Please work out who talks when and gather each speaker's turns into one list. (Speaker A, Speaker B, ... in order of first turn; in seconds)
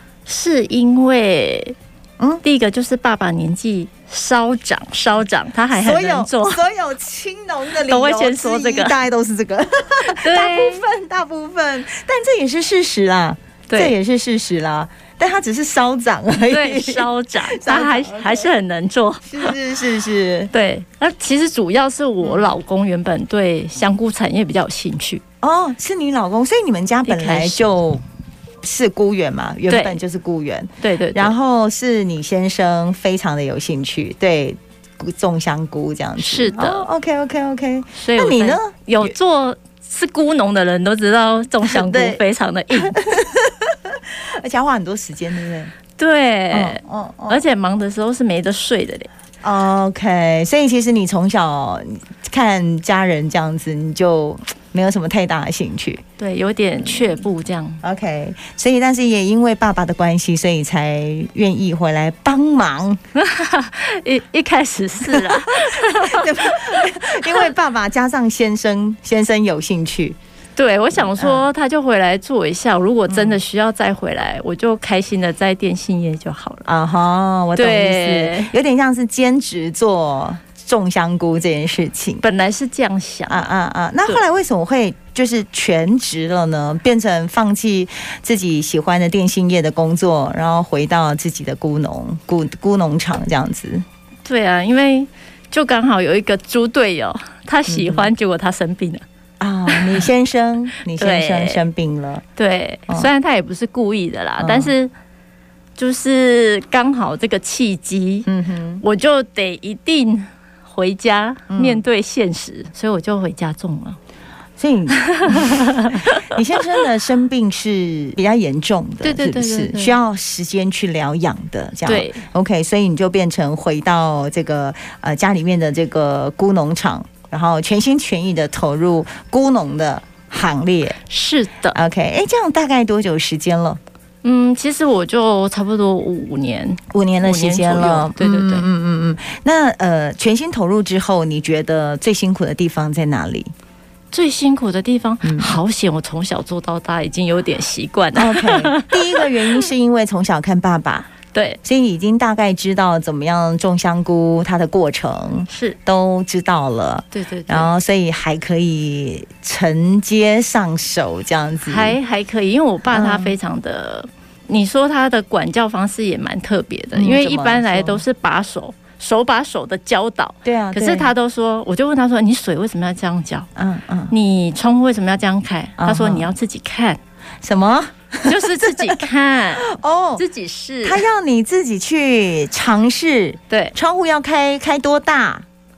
Speaker A: 0.3-1.8, 2.4-6.6, 7.8-9.0, 10.0-10.8, 13.7-13.9, 16.5-19.6, 20.5-25.2, 27.1-27.6, 29.7-30.0, 30.8-31.3, 36.2-36.9, 38.0-43.0, 46.0-49.1, 56.2-57.8, 63.1-67.5, 70.6-76.7, 77.6-78.5, 82.2-83.5, 94.2-99.0, 99.7-100.1, 100.9-101.6, 102.4-104.9, 105.8-108.3, 108.8-114.0, 115.0-116.8, 119.0-120.0, 121.9-122.2, 131.1-131.8, 134.2-138.7, 144.1-149.7, 151.3-151.6, 155.5-155.8, 157.1-157.7, 161.7-173.5, 174.1-177.0, 178.2-179.7, 180.2-181.1, 183.5-183.8
Speaker B: 5.8-18.5, 19.2-20.5, 25.4-28.0, 28.6-39.1, 41.6-42.2, 42.7-45.8, 46.5-47.4, 49.4-56.0, 57.8-63.0, 65.1-70.2, 71.0-71.4, 73.1-73.4, 76.7-82.2, 83.3-93.8, 97.7-98.1, 99.4-102.2, 104.4-104.7, 108.3-108.8, 111.5-111.8, 114.6-131.0, 131.7-133.8, 136.9-143.5, 145.2-145.6, 148.1-151.1, 151.6-162.0, 162.9-163.3, 166.9-168.0, 170.4-171.1, 173.6-174.1, 175.8-176.3, 177.4-179.1, 179.6-180.2, 180.8-185.4